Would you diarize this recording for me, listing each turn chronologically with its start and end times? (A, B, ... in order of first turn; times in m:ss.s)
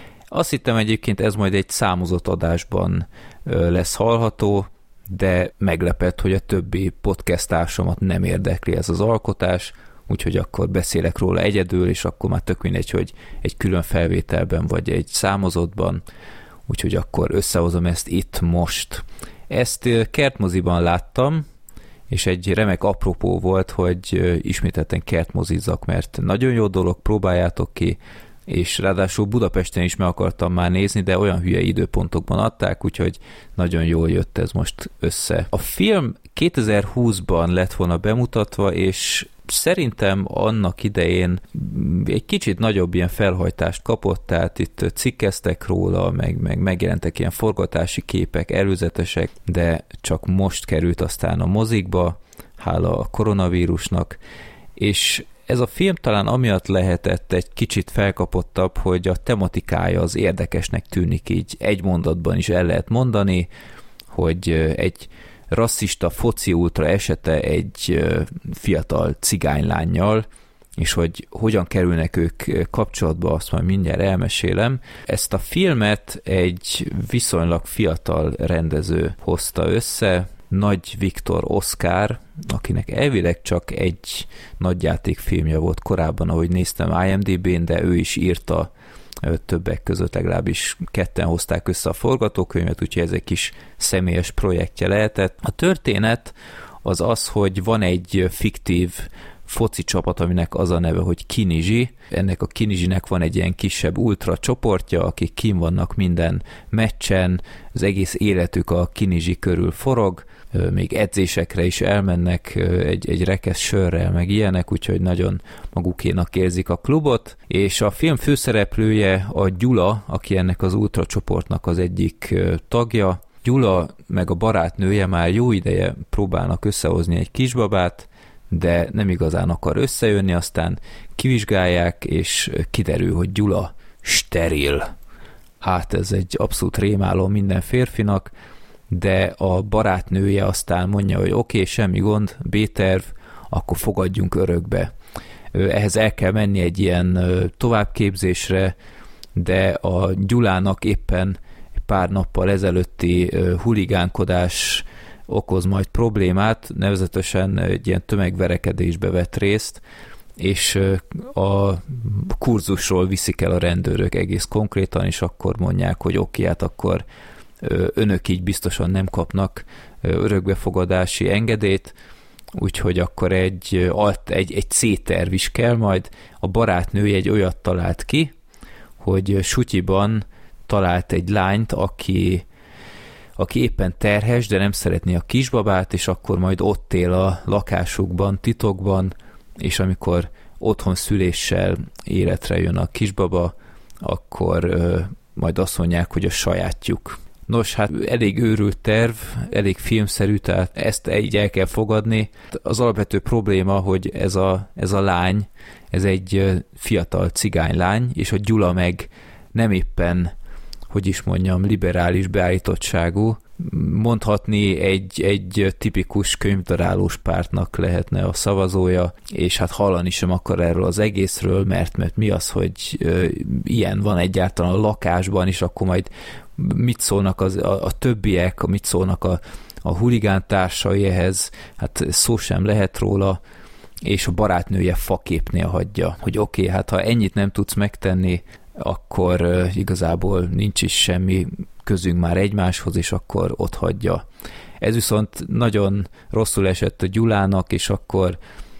0:00.3-0:16.0 A
0:16.7-0:21.4 A
0:22.1-0:54.2 A
0:54.8-1:03.5 A
1:04.1-1:10.2 A
1:10.8-1:28.7 A
1:29.2-2:14.9 A
2:15.6-2:18.3 A
2:18.9-2:24.9 A
2:25.5-2:28.7 A
2:29.3-2:39.8 A
2:40.4-2:47.0 A
2:47.6-2:52.0 A
2:52.5-2:58.3 A
2:59.0-3:02.4 A
3:03.4-3:30.3 A
3:30.9-3:53.4 A
3:54.0-4:04.2 A
4:04.8-4:08.4 A